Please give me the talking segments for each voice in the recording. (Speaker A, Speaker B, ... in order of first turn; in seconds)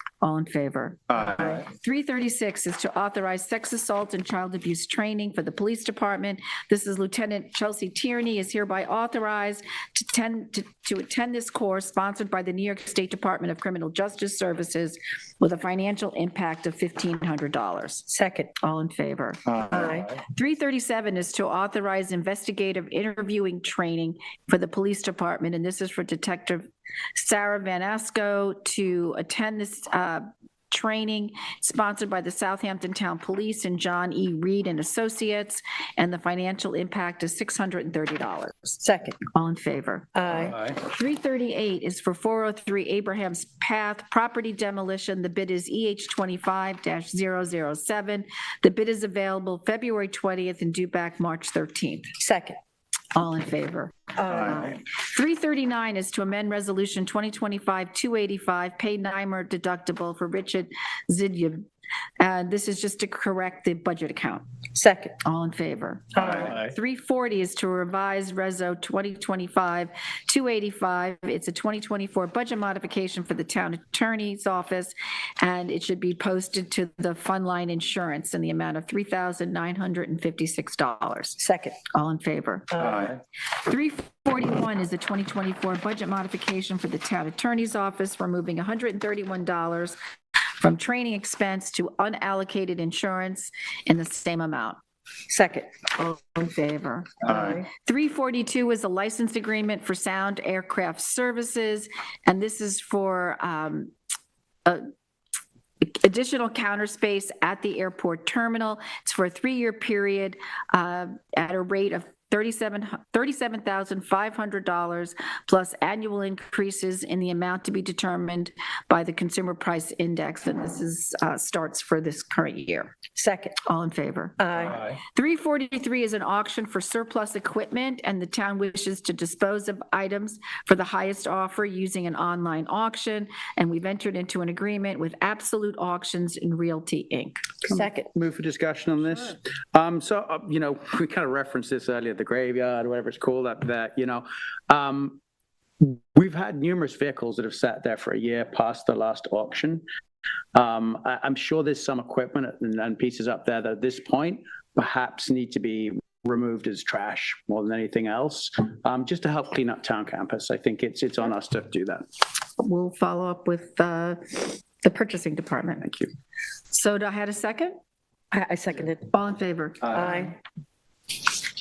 Speaker A: 0.2-18.1, 18.6-38.8, 39.3-52.1, 53.1-61.6, 62.2-64.5, 65.2-81.4, 81.9-83.1, 83.6-90.0, 90.6-94.8, 95.9-103.9, 105.8-123.0, 123.6-137.5, 162.6-165.9, 166.7-167.8, 169.1-170.2
Speaker B: 18.1-18.5, 19.7-20.2, 38.8-39.2, 40.1-40.6, 52.2-52.6, 54.2-54.7, 64.7-65.2, 81.4-81.8, 82.7-83.1, 95.3-95.7, 97.3-97.7, 123.2-123.6, 124.4-124.9, 137.7-138.1, 168.3-169.1, 169.9-170.3
Speaker C: 137.7-145.2, 145.8-149.8, 150.6-162.0, 165.8-166.1